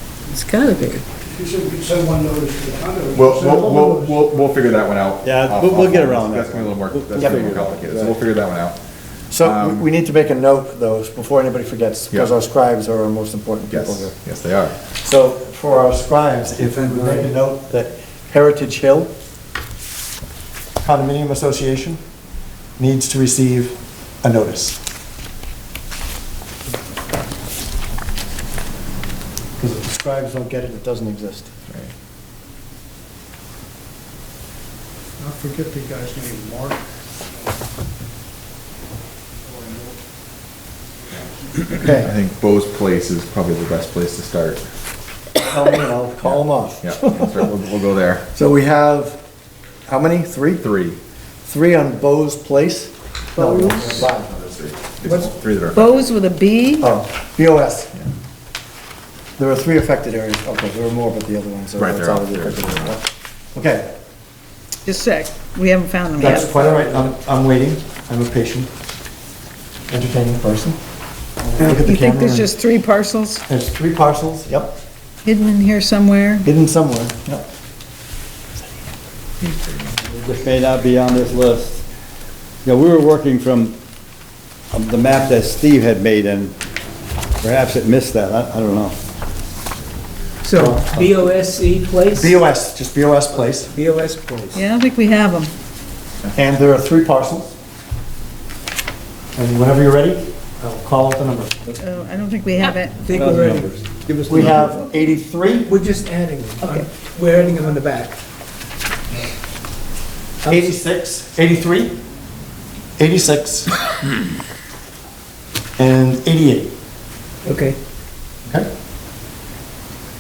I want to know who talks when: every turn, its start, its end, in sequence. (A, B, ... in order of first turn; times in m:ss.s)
0:00.3-0:01.1 A
0:01.3-0:04.4 B
0:03.1-0:08.8 C
0:05.2-0:08.2 D
0:07.2-0:07.5 E
0:09.3-0:14.2 E
0:09.4-0:09.9 C
0:13.7-0:14.8 C
0:15.0-0:19.1 E
0:20.8-0:22.0 E
0:22.8-0:24.8 E
0:29.6-0:31.5 E
0:35.2-0:36.8 B
0:39.5-0:40.0 B
0:41.7-0:42.1 E
0:41.8-0:44.6 C
0:45.4-0:47.5 E
0:46.2-0:48.3 C
0:48.3-0:49.2 E
0:49.9-0:50.7 E
0:50.6-0:51.0 C
0:51.5-0:54.5 E
0:53.5-0:56.0 C
0:55.7-0:56.9 A
0:56.8-0:57.9 E
0:59.4-1:03.9 E
1:01.8-1:03.0 C
1:04.8-1:06.6 A
1:06.2-1:08.7 E
1:09.9-1:10.8 E
1:11.5-1:12.5 E
1:11.6-1:13.4 A
1:13.5-1:14.8 E
1:15.2-1:16.5 A
1:16.4-1:17.5 E
1:19.4-1:20.0 C
1:20.1-1:21.8 D
1:22.6-1:23.8 D
1:24.7-1:26.6 D
1:27.4-1:29.0 D
1:30.4-1:32.4 F
1:30.5-1:31.2 E
1:32.1-1:33.7 E
1:33.7-1:34.6 F
1:34.5-1:35.5 A
1:36.3-1:37.5 E
1:39.4-1:41.7 E
1:41.8-1:43.1 A
1:43.0-1:44.7 F
1:43.1-1:44.6 D
1:44.3-1:45.7 E
1:45.7-1:48.1 F
1:46.6-1:46.9 A
1:50.4-1:50.8 F
1:50.4-1:52.0 E
1:53.0-1:53.8 E
1:55.8-1:56.7 E
1:57.4-1:57.8 F